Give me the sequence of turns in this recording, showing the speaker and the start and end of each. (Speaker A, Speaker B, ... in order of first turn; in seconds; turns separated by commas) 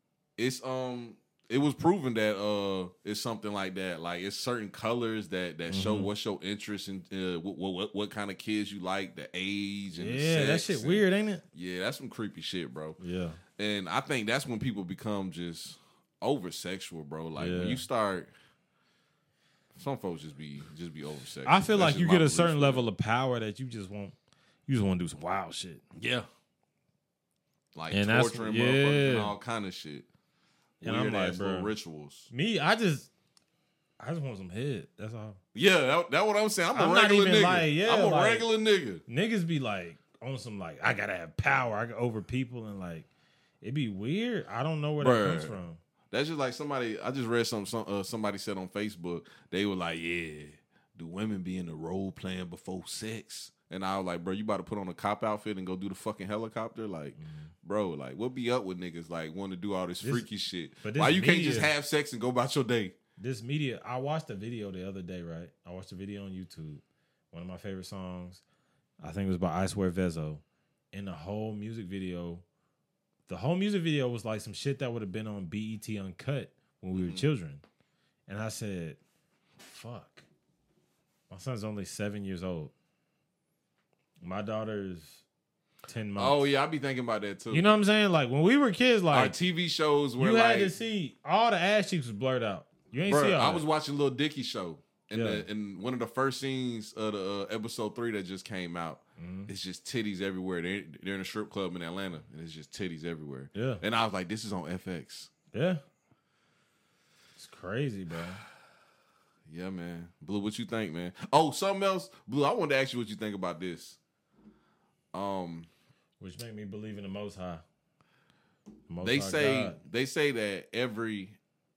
Speaker A: 0.4-13.0, Speaker B: 5.7-6.1, Speaker B: 10.0-11.4, Speaker B: 13.0-13.4, Speaker A: 13.6-18.3, Speaker B: 17.4-17.8, Speaker A: 19.8-22.8, Speaker B: 21.5-24.2, Speaker B: 24.7-25.8, Speaker A: 26.0-26.3, Speaker A: 27.8-30.1, Speaker B: 27.9-29.3, Speaker A: 30.8-32.3, Speaker B: 30.8-31.7, Speaker B: 32.3-33.1, Speaker B: 34.0-35.4, Speaker A: 35.5-39.0, Speaker B: 36.7-38.5, Speaker B: 39.1-43.1, Speaker B: 43.6-45.8, Speaker A: 45.0-45.6, Speaker A: 46.1-63.0, Speaker B: 57.2-57.5, Speaker B: 60.0-60.3, Speaker B: 60.8-61.7, Speaker B: 63.2-68.4, Speaker B: 69.0-72.5, Speaker B: 73.3-77.6, Speaker A: 77.0-77.2, Speaker B: 78.3-79.0, Speaker B: 79.6-80.3, Speaker B: 81.3-82.7, Speaker B: 84.2-85.2, Speaker B: 85.9-86.4, Speaker A: 86.2-87.7, Speaker B: 87.5-89.4, Speaker A: 89.1-90.7, Speaker B: 90.2-93.7, Speaker A: 93.1-105.3, Speaker B: 95.1-95.5, Speaker B: 99.2-99.5, Speaker B: 103.5-103.8, Speaker B: 105.5-105.8, Speaker B: 107.4-108.4, Speaker A: 109.5-114.0, Speaker A: 115.1-115.7, Speaker B: 116.2-117.6, Speaker B: 118.9-119.8, Speaker A: 119.0-121.4